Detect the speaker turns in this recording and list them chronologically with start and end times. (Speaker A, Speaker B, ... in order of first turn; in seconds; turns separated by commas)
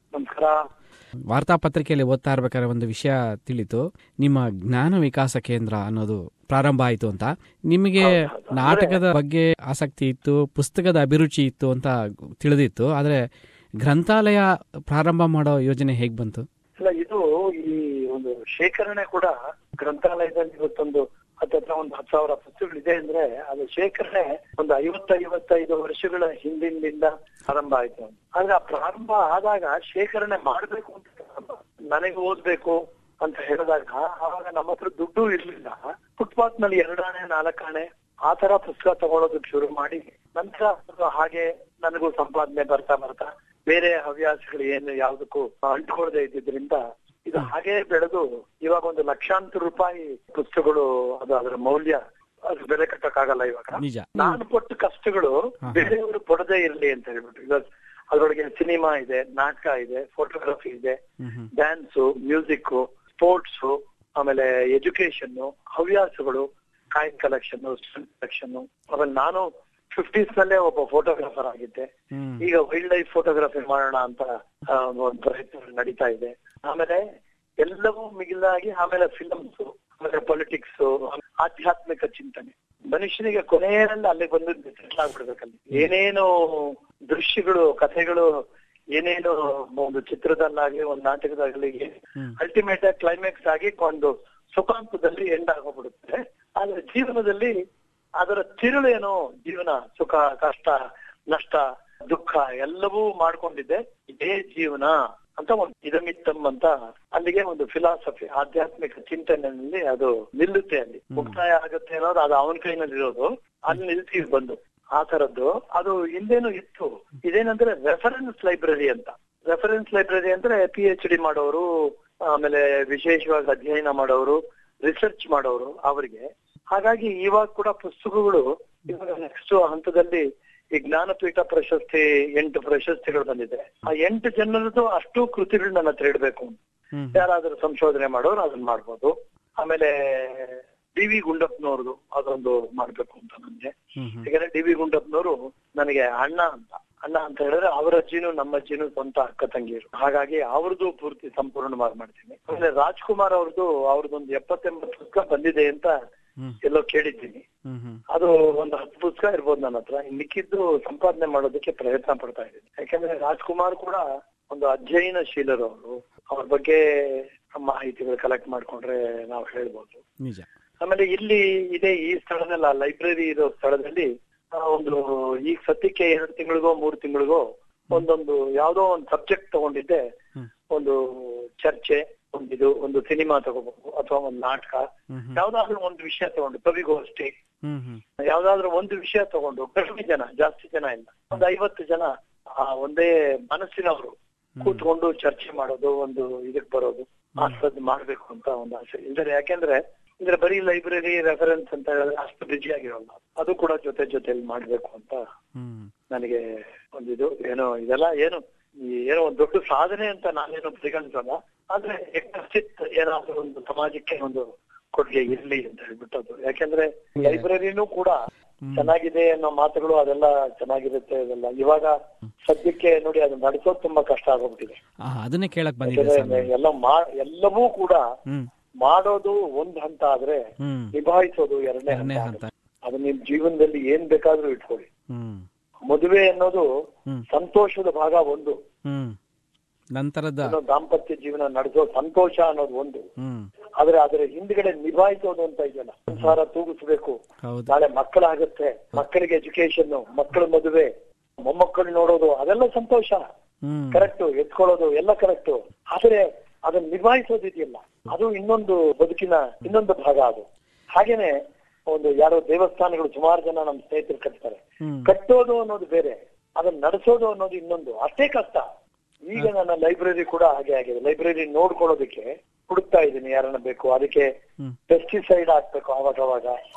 Speaker A: 0.1-0.6, Speaker B: 1.3-13.2, Speaker A: 8.0-9.0, Speaker B: 13.8-16.4, Speaker A: 16.8-61.0, Speaker B: 53.8-54.4, Speaker B: 55.6-55.9, Speaker B: 61.2-61.5, Speaker A: 61.5-71.9, Speaker B: 72.1-72.4, Speaker A: 72.4-77.0, Speaker A: 77.6-88.3, Speaker A: 89.0-97.5, Speaker A: 98.2-100.8, Speaker A: 101.3-121.7, Speaker A: 122.3-130.2, Speaker A: 130.7-136.6, Speaker B: 136.9-137.2, Speaker A: 137.1-155.9, Speaker B: 144.0-144.2, Speaker A: 156.6-157.4, Speaker B: 157.7-158.0, Speaker A: 158.1-170.0, Speaker A: 170.8-180.0, Speaker A: 180.7-187.3, Speaker B: 185.1-185.4, Speaker B: 187.6-188.0, Speaker A: 188.3-205.2, Speaker B: 194.6-194.8, Speaker B: 205.6-205.9, Speaker A: 206.1-206.4, Speaker A: 206.9-218.2, Speaker B: 218.6-218.9, Speaker A: 218.7-224.8, Speaker B: 225.0-226.5, Speaker A: 225.8-228.0, Speaker A: 228.8-230.4, Speaker B: 230.6-230.9, Speaker A: 230.9-234.9, Speaker B: 231.9-232.5, Speaker B: 235.1-235.4, Speaker A: 235.9-236.6, Speaker A: 237.3-238.6, Speaker B: 238.9-239.2, Speaker B: 239.9-240.5, Speaker A: 240.4-243.0, Speaker B: 243.2-243.5, Speaker A: 243.8-247.1, Speaker B: 246.1-246.3, Speaker B: 247.4-247.7, Speaker A: 247.7-250.9, Speaker A: 251.5-253.2, Speaker B: 253.7-254.1, Speaker A: 253.9-260.4, Speaker A: 260.9-261.3, Speaker A: 261.9-268.6, Speaker B: 264.8-265.1, Speaker A: 269.3-274.3, Speaker A: 274.9-276.5